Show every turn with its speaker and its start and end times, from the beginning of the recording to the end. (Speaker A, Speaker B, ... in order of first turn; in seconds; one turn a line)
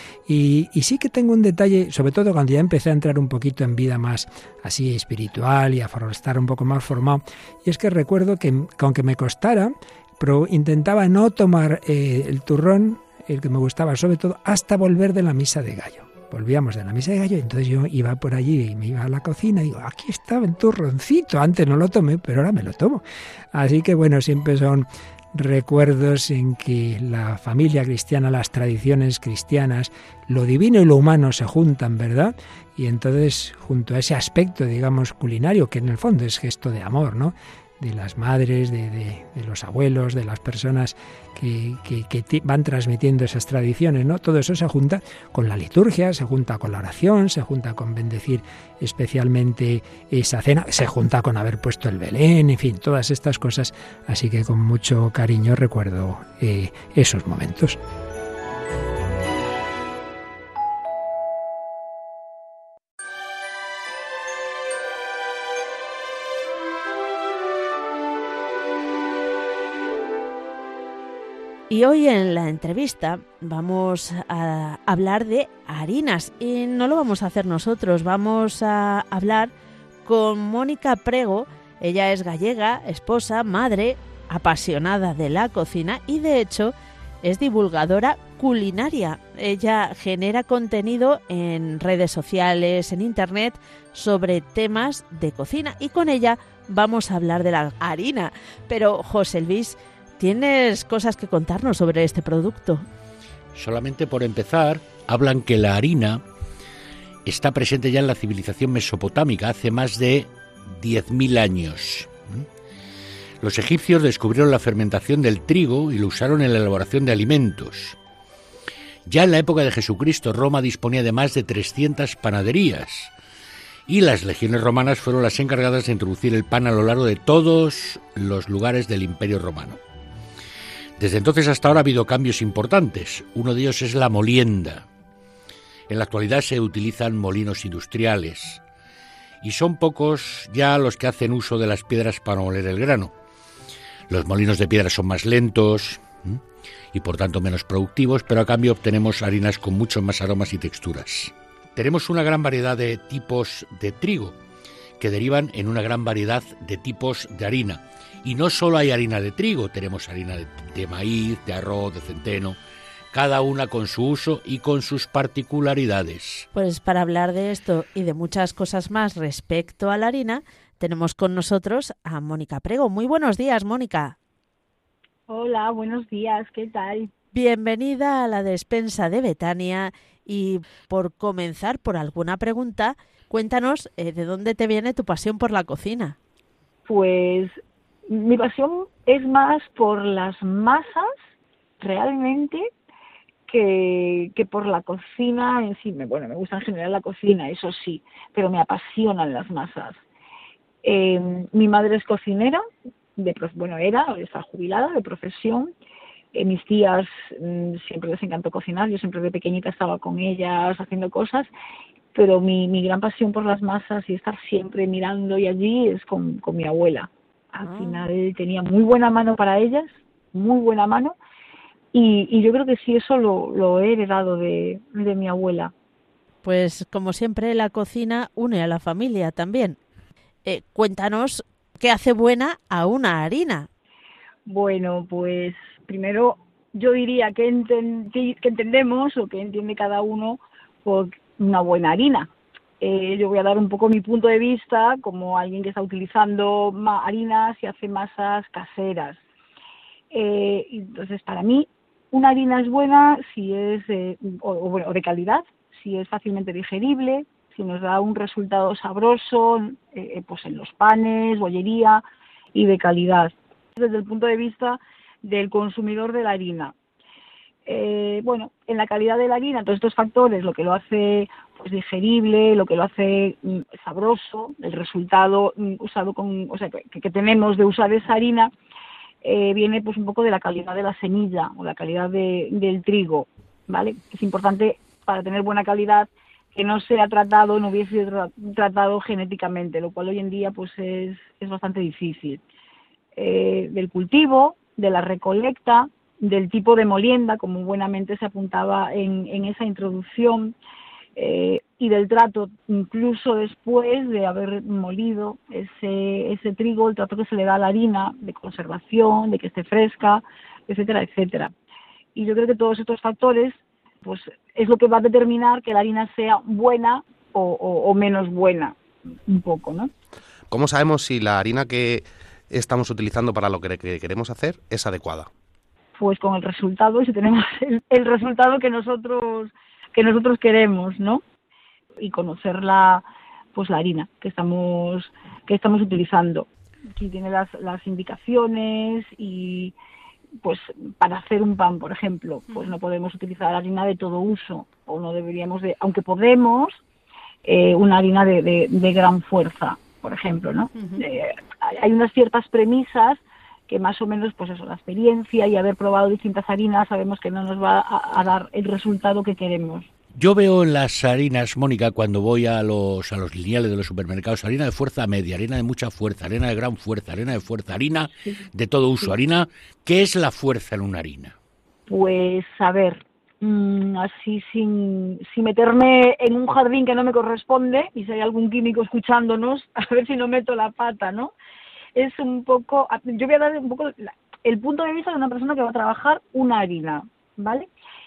Speaker A: 0.2-57.8
Speaker B: 71.7-79.5
Speaker B: 80.0-102.8
Speaker C: 103.5-106.2
Speaker C: 107.2-112.5
Speaker C: 113.4-118.0
Speaker C: 119.1-123.1
Speaker C: 123.9-129.8
Speaker C: 131.0-134.8
Speaker C: 135.9-138.6
Speaker C: 139.4-143.1
Speaker C: 144.1-146.4
Speaker C: 146.9-154.3
Speaker C: 155.0-162.6
Speaker C: 163.1-166.5
Speaker B: 166.5-174.2
Speaker D: 175.3-177.1
Speaker B: 177.3-186.2
Speaker D: 186.8-191.1
Speaker D: 191.8-192.7
Speaker D: 193.5-200.0
Speaker D: 200.8-202.6
Speaker D: 203.2-205.7
Speaker D: 206.3-211.5
Speaker D: 212.1-221.2
Speaker B: 217.6-218.1
Speaker D: 221.9-225.7
Speaker B: 226.4-229.8
Speaker B: 230.4-233.7
Speaker D: 234.4-242.3
Speaker D: 242.8-249.2
Speaker D: 250.1-262.0
Speaker D: 262.5-266.7
Speaker D: 267.6-278.5
Speaker D: 279.2-292.4
Speaker D: 293.1-300.5
Speaker D: 301.1-311.5
Speaker D: 312.1-319.9
Speaker E: 320.5-325.3
Speaker D: 326.0-331.2
Speaker D: 332.0-339.7
Speaker D: 340.4-346.8
Speaker D: 347.4-359.9
Speaker C: 360.1-371.3
Speaker D: 371.9-381.3
Speaker D: 381.9-387.7